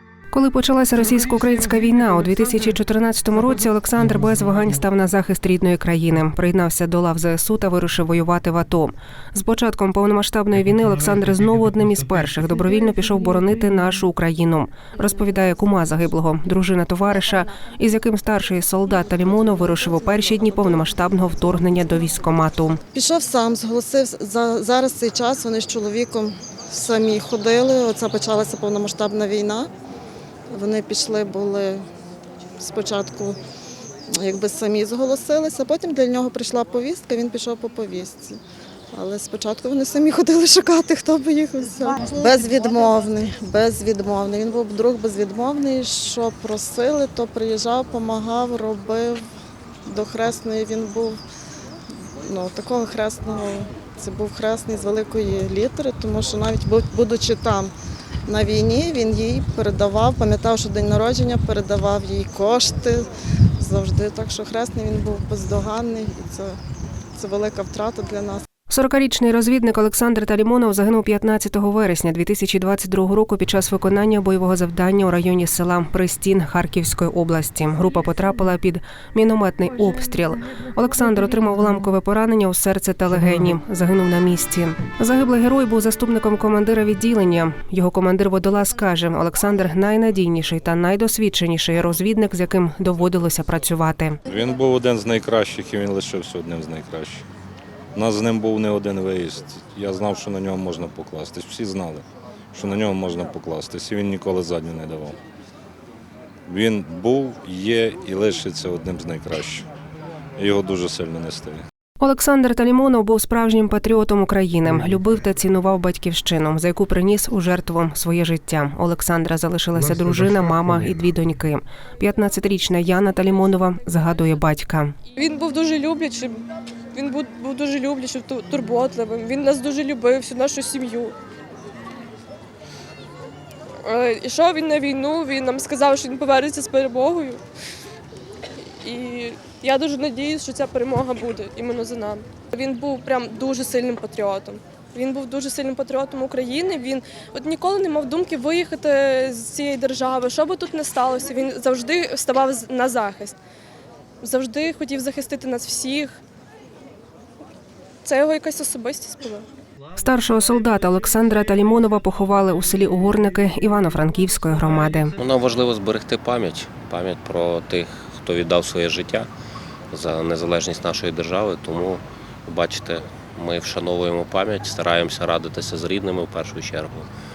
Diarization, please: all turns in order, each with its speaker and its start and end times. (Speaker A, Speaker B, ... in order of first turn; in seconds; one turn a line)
Speaker A: 0.3-22.8
Speaker B: 22.9-29.7
Speaker B: 30.5-31.8
Speaker B: 32.6-33.4
Speaker B: 34.1-38.4
Speaker B: 38.9-49.2
Speaker B: 49.8-51.2
Speaker B: 52.2-57.7
Speaker B: 58.2-63.1
Speaker B: 63.6-66.6
Speaker B: 67.1-68.4
Speaker A: 68.7-94.2
Speaker C: 94.2-97.2
Speaker C: 97.9-105.2
Speaker C: 106.5-109.7
Speaker C: 110.4-111.6
Speaker A: 112.0-124.9
Speaker D: 125.1-131.1
Speaker D: 133.8-137.4
Speaker D: 138.6-153.4
Speaker D: 154.2-156.2
Speaker D: 158.0-159.4
Speaker A: 159.9-165.1
Speaker E: 165.2-169.3
Speaker E: 169.9-177.1